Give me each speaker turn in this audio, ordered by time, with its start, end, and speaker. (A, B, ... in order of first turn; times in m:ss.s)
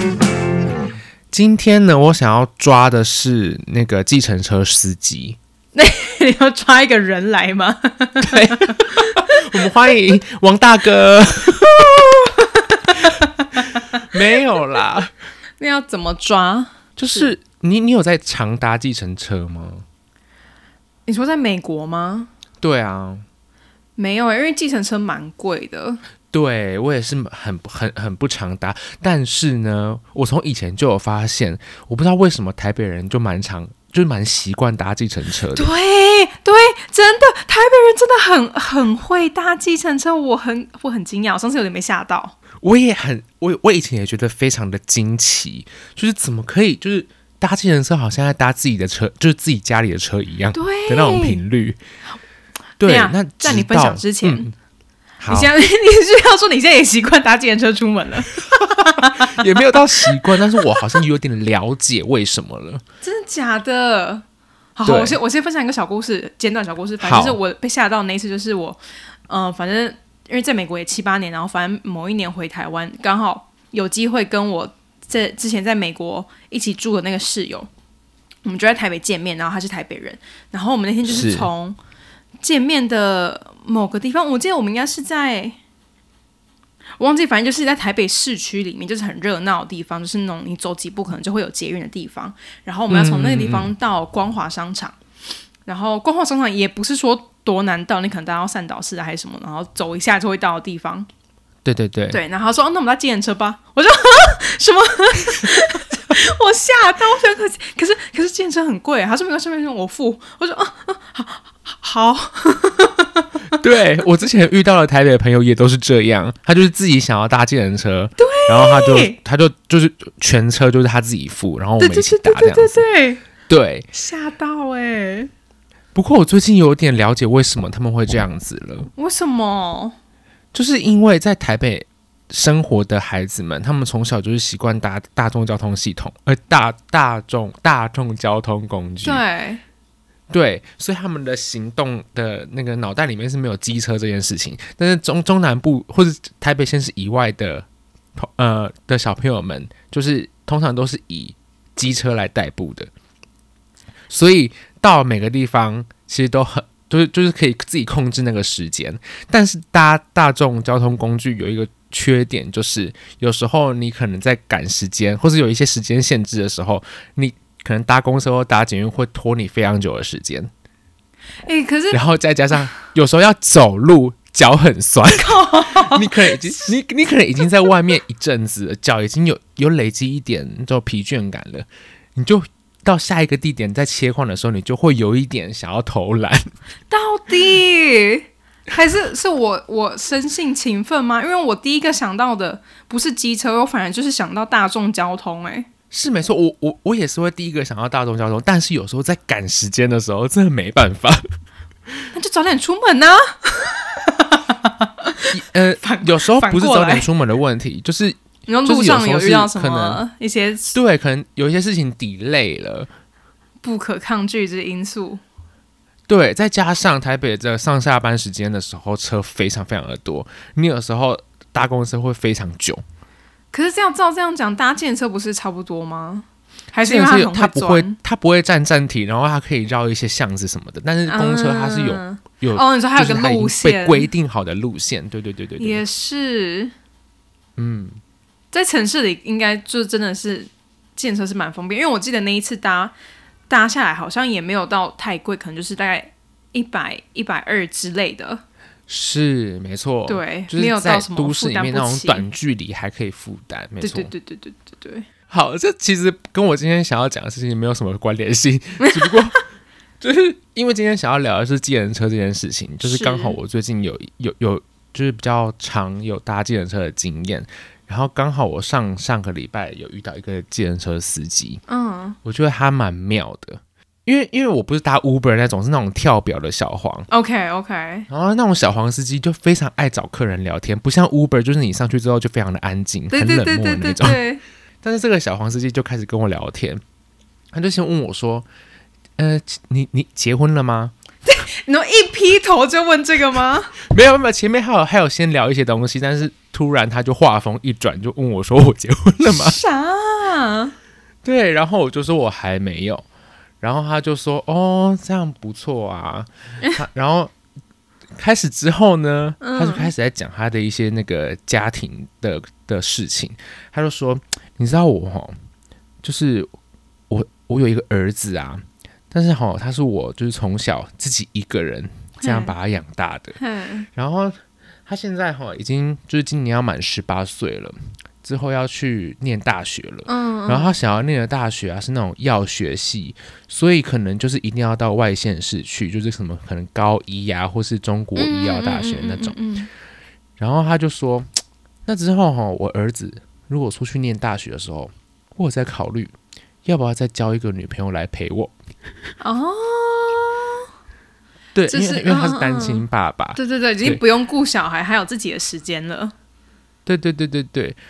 0:01.3-0:05.4 A
0:05.7-0:09.1 B
0:08.2-0:12.3 A
0:13.1-0:13.7 B
0:13.9-0:15.1 A
0:15.6-0:17.3 B
0:17.0-0:19.8 A
0:21.1-0:22.3 B
0:22.6-0:23.2 A
0:24.0-0:26.0 B
0:26.3-0:35.7 A
0:35.5-0:42.3 B
0:42.6-0:51.8 A
0:50.5-0:51.4 B
0:52.8-0:54.5 A
0:52.8-0:54.5 B
0:55.2-0:55.5 A
0:55.3-0:59.5 B
0:59.0-1:02.8 A
1:00.2-1:00.6 B
1:03.0-1:04.2 B
1:04.8-1:17.7 B
1:04.8-1:05.2 A
1:07.0-1:07.4 A
1:18.4-1:21.8 B
1:21.0-1:21.5 A
1:22.4-1:25.6 B
1:27.0-1:35.0 B
1:32.9-1:33.7 A
1:35.6-1:41.1 B
1:41.6-1:42.2 A
1:42.1-1:53.3 B
1:53.5-2:02.9 A
1:58.2-1:59.2 B
2:01.8-2:03.2 B
2:03.5-2:03.9 A
2:03.9-2:05.3 B
2:05.9-2:08.9 A
2:09.0-2:10.0 B
2:10.5-2:19.2 A
2:19.0-2:19.6 B
2:20.3-2:32.9 A
2:34.1-2:50.5 A
2:51.4-2:52.0 B
2:51.9-3:06.5 A
2:55.1-2:56.5 B
3:06.9-3:15.7 B
3:15.9-3:21.3 A
3:22.1-3:27.1 B
3:25.3-3:30.0 A
3:28.5-3:30.7 B
3:30.7-3:32.9 A
3:33.6-3:35.2 B
3:36.1-3:42.8 A
3:43.5-3:48.0 B
3:46.8-3:55.8 A
3:51.1-3:54.1 B
3:55.6-3:56.7 B
3:57.6-3:58.0 A
3:58.5-4:02.9 B
4:03.5-4:08.4 B
4:08.9-4:14.1 A
4:10.1-4:12.2 B
4:13.8-4:15.1 B
4:15.3-4:19.4 A
4:18.8-4:19.1 B
4:20.0-4:31.6 A
4:22.8-4:23.4 B
4:31.7-4:32.2 B
4:32.2-4:37.1 A
4:37.1-4:38.1 B
4:38.1-4:44.2 A
4:43.1-4:44.4 B
4:44.8-4:46.8 A
4:47.5-4:48.4 A
4:49.2-4:50.9 A
4:51.2-4:53.7 B
4:53.9-4:59.6 A
4:59.2-5:00.7 B
5:01.2-5:03.0 A
5:03.6-5:07.3 A
5:08.2-5:15.3 A
5:09.4-5:09.9 B
5:16.0-5:16.5 A
5:17.1-5:23.4 A
5:22.2-5:22.5 B
5:23.4-5:23.8 B
5:23.9-5:39.4 A
5:30.0-5:30.7 B
5:38.2-5:39.7 B
5:40.4-5:41.3 A
5:41.9-5:46.1 A
5:46.6-5:48.5 A
5:49.2-5:50.7 B
5:51.5-5:54.0 A
5:51.7-5:56.1 B
5:56.8-5:57.8 A